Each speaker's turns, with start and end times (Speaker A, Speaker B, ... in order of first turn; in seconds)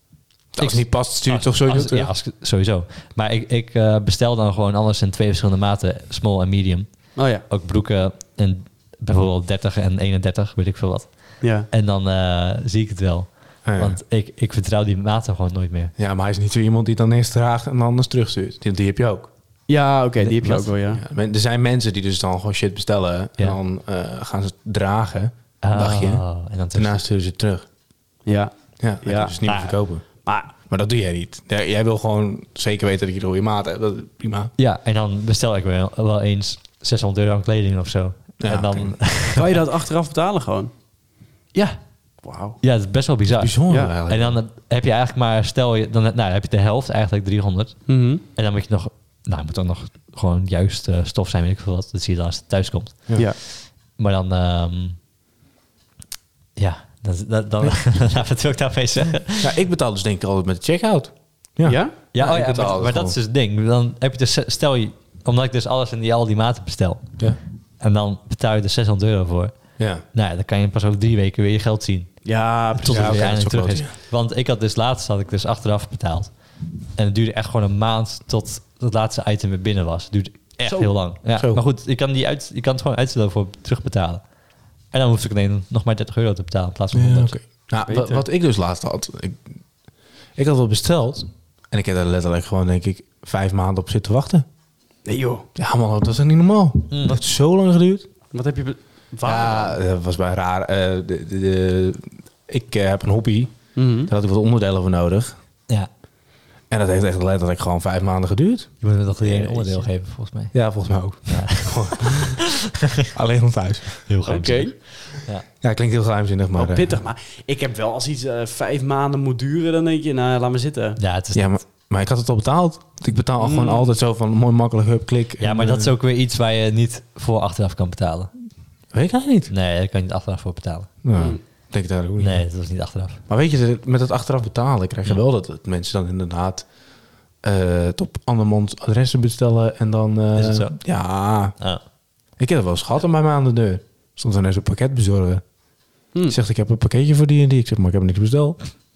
Speaker A: 0.5-2.1, 13.6-14.0, 16.0-19.3, 20.9-27.6, 28.8-34.5, 38.4-39.0, 43.3-44.4, 59.4-63.2, 72.9-73.9, 81.3-81.6, 86.9-89.5, 90.3-94.4, 95.5-98.1, 99.2-105.3, 106.7-108.7, 110.5-112.4, 113.1-114.1, 115.6-117.0, 121.3-125.9, 128.9-129.5, 131.0-132.4, 133.3-136.7, 137.4-141.6, 142.4-145.4, 146.3-148.6
Speaker B: 0.6-15.9, 20.3-20.7, 25.6-27.0, 29.4-29.7, 34.6-39.6, 42.6-55.0, 56.6-59.6, 62.1-76.4, 76.9-84.3, 84.9-87.4, 96.9-97.2, 108.8-110.6, 111.3-112.5, 114.1-115.4, 121.0-121.6, 125.4-128.3, 129.5-130.9, 132.2-133.2, 140.3-140.8
Speaker C: 7.2-7.4, 11.4-11.7, 19.7-21.0, 28.2-30.5, 39.3-40.7, 42.2-42.6, 47.9-48.2, 61.6-62.0, 72.2-73.3, 80.6-80.9, 87.8-88.2, 95.0-95.5, 98.3-99.8, 103.7-104.1, 109.2-109.9, 114.2-114.8, 116.5-121.0, 123.4-123.9, 131.1-131.4